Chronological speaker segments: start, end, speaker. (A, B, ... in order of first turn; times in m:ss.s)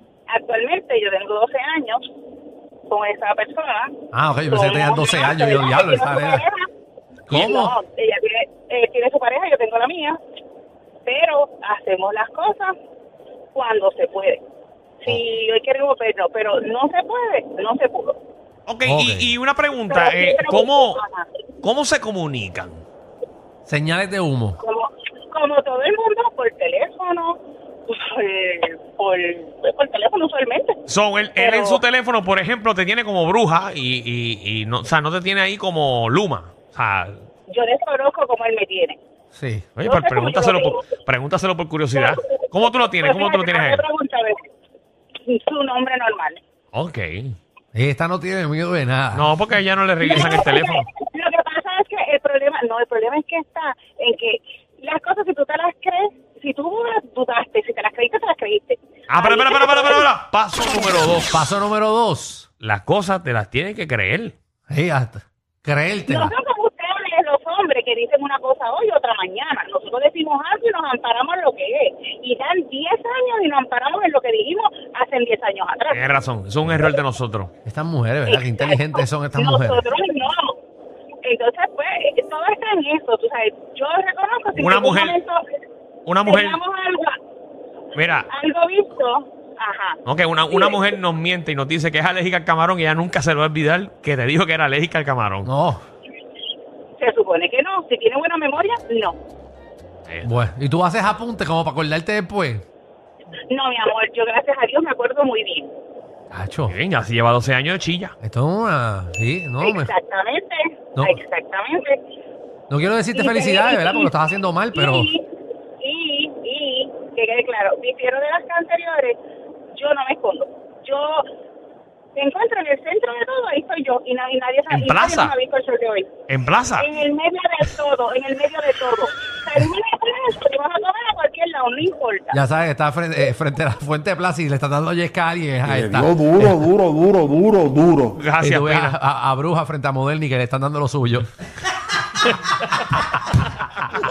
0:00.3-0:02.0 A
0:02.9-0:03.9 A
0:04.1-0:06.4 B
0:04.5-0:06.7 A
0:07.3-0:07.7 B
0:07.3-0:10.2 A
0:11.1-0:12.7 A
0:13.5-0:14.4 A
0:15.0-0:18.2 A
0:18.7-0:21.0 C
0:18.9-0:19.3 B
0:19.9-0:21.3 A
0:21.6-0:22.8 C
0:23.7-0:24.6 B
0:24.6-0:30.8 A
0:30.9-0:37.2 C
0:31.4-0:31.8 A
0:37.5-0:39.0 A
0:39.3-0:39.7 B
0:39.8-0:43.8 C
0:39.8-0:40.8 A
0:42.7-0:44.4 A
0:45.2-0:46.4 A
0:46.7-0:47.4 C
0:47.7-0:49.3 B
0:49.1-0:50.9 C
0:50.0-1:00.1 A
0:50.2-0:50.4 B
0:59.1-1:01.3 C
1:01.3-1:02.5 B
1:02.6-1:04.4 C
1:04.7-1:06.3 B
1:06.1-1:16.0 A
1:15.9-1:17.5 C
1:17.6-1:19.8 B
1:18.3-1:20.6 A
1:21.2-1:25.4 A
1:24.6-1:25.2 C
1:26.1-1:26.6 C
1:26.2-1:27.2 A
1:27.9-1:28.3 C
1:28.3-1:30.8 A
1:30.0-1:35.5 C
1:35.4-1:35.8 B
1:37.0-1:39.2 A
1:40.2-1:42.6 B
1:43.5-1:45.7 A
1:46.3-1:46.8 B
1:46.7-1:48.2 C
1:48.2-1:49.9 B
1:49.6-1:52.0 A
1:52.7-1:55.1 B
1:53.1-1:54.1 A
1:54.8-1:55.2 A
1:55.8-1:59.2 A
1:59.7-2:01.2 A
2:02.2-2:06.1 A
2:04.7-2:05.4 C
2:06.3-2:06.9 C
2:06.8-2:12.4 A
2:12.3-2:16.2 B
2:15.8-2:18.2 D
2:18.2-2:19.0 C
2:18.4-2:21.3 B